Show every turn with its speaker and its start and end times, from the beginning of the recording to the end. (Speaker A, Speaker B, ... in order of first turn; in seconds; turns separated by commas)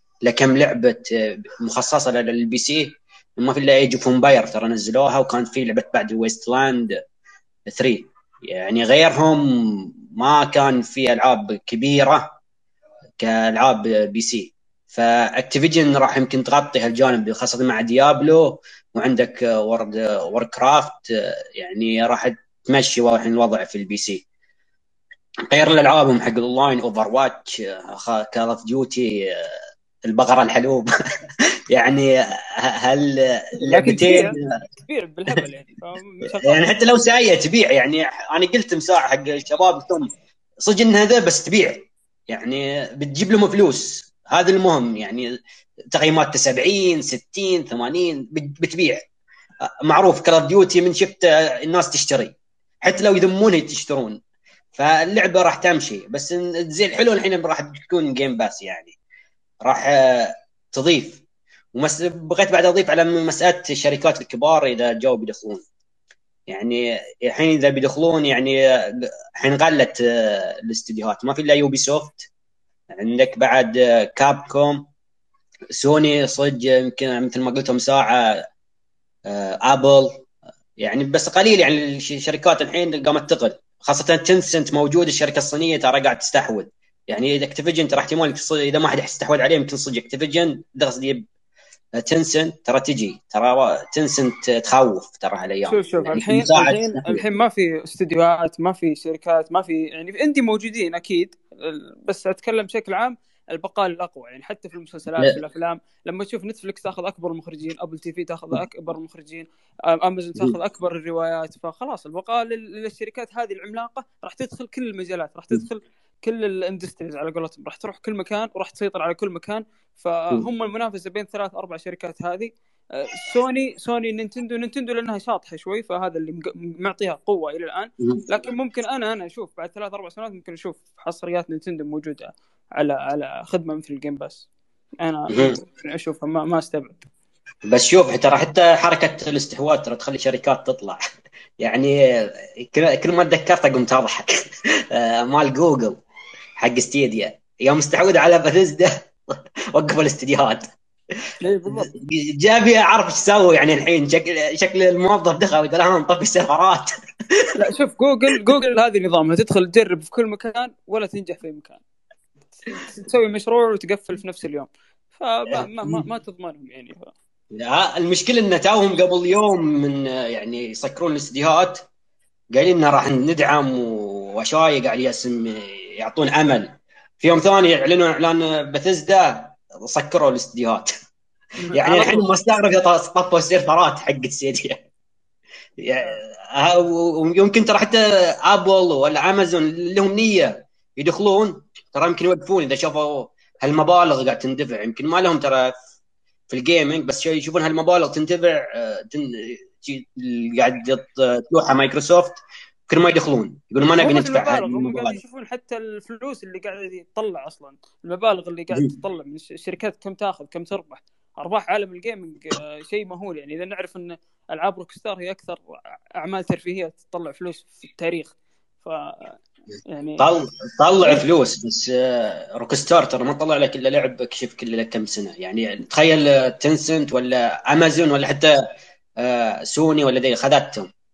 Speaker A: 0.2-6.9, Speaker A: 7.7-12.4, Speaker A: 13.2-24.2, Speaker A: 25.5-29.5, Speaker A: 30.0-30.9, Speaker A: 31.7-32.1, Speaker A: 32.7-34.4, Speaker B: 33.6-36.6, Speaker A: 36.4-40.1, Speaker A: 40.6-45.2, Speaker A: 45.9-49.0, Speaker A: 49.8-54.2, Speaker A: 54.8-58.9, Speaker A: 59.6-61.2, Speaker A: 61.7-65.6, Speaker A: 66.5-72.3, Speaker A: 72.9-74.9, Speaker A: 75.7-78.5, Speaker A: 79.3-80.2, Speaker A: 80.8-91.2, Speaker A: 92.0-97.2, Speaker B: 95.7-134.4, Speaker B: 135.0-137.1, Speaker A: 135.3-135.6, Speaker A: 137.7-141.0, Speaker A: 141.6-144.3, Speaker A: 144.9-146.0, Speaker A: 146.6-150.7, Speaker B: 151.4-151.9, Speaker A: 151.7-157.6, Speaker B: 157.6-161.8, Speaker B: 162.7-167.1, Speaker A: 165.5-166.1, Speaker A: 167.5-171.8, Speaker A: 172.5-180.9, Speaker B: 181.6-182.3, Speaker A: 181.7-184.8, Speaker A: 185.8-195.7, Speaker A: 196.5-205.2, Speaker B: 204.0-219.3, Speaker B: 219.9-220.3, Speaker A: 220.2-228.5, Speaker A: 229.2-230.9